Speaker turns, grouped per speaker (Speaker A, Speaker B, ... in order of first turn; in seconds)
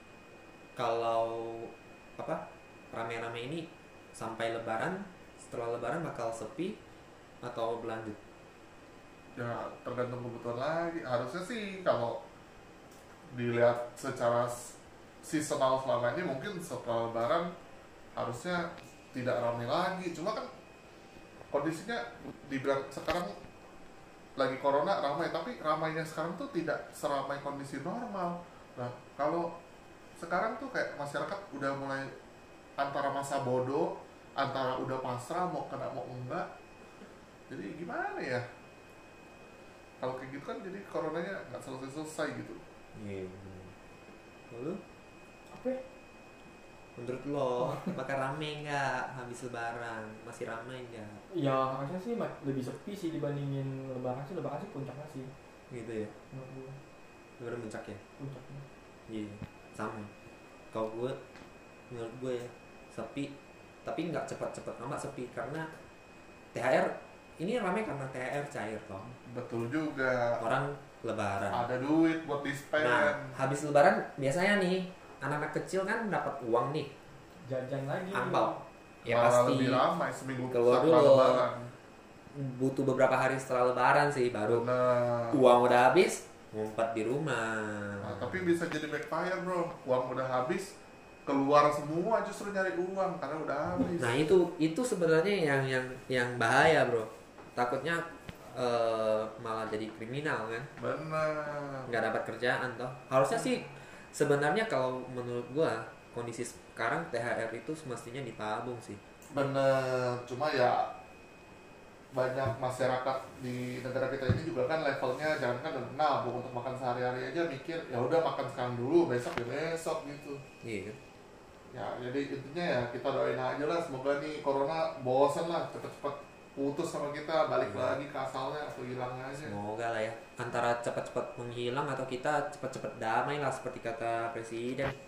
Speaker A: 0.8-2.4, 2.9-6.8, 7.4-8.2, 43.0-43.7, 44.5-44.8, 47.0-51.2, 55.7-56.1, 57.4-58.0, 59.1-60.1, 60.7-61.2, 61.9-63.3, 63.9-65.7, 66.5-69.1, 70.4-71.6, 72.8-76.9, 78.1-79.8, 80.5-81.5, 82.3-84.7, 85.3-88.5, 94.0-100.7, 101.9-109.0, 120.6-121.0, 127.6-128.0, 129.4-134.9
Speaker B: 9.4-12.2, 13.3-17.5, 18.2-20.5, 21.5-23.3, 24.4-29.5, 30.2-32.1, 32.8-36.5, 37.5-38.5, 40.0-42.6, 69.3-70.4, 71.5-73.3, 79.1-81.7, 84.5-85.5, 88.0-90.7, 91.3-94.2, 100.8-101.9, 109.3-110.9, 112.1-120.4, 121.7-129.6
Speaker C: 45.5-45.8, 47.7-47.9, 51.3-55.3, 56.3-56.8, 58.2-58.6, 77.4-78.6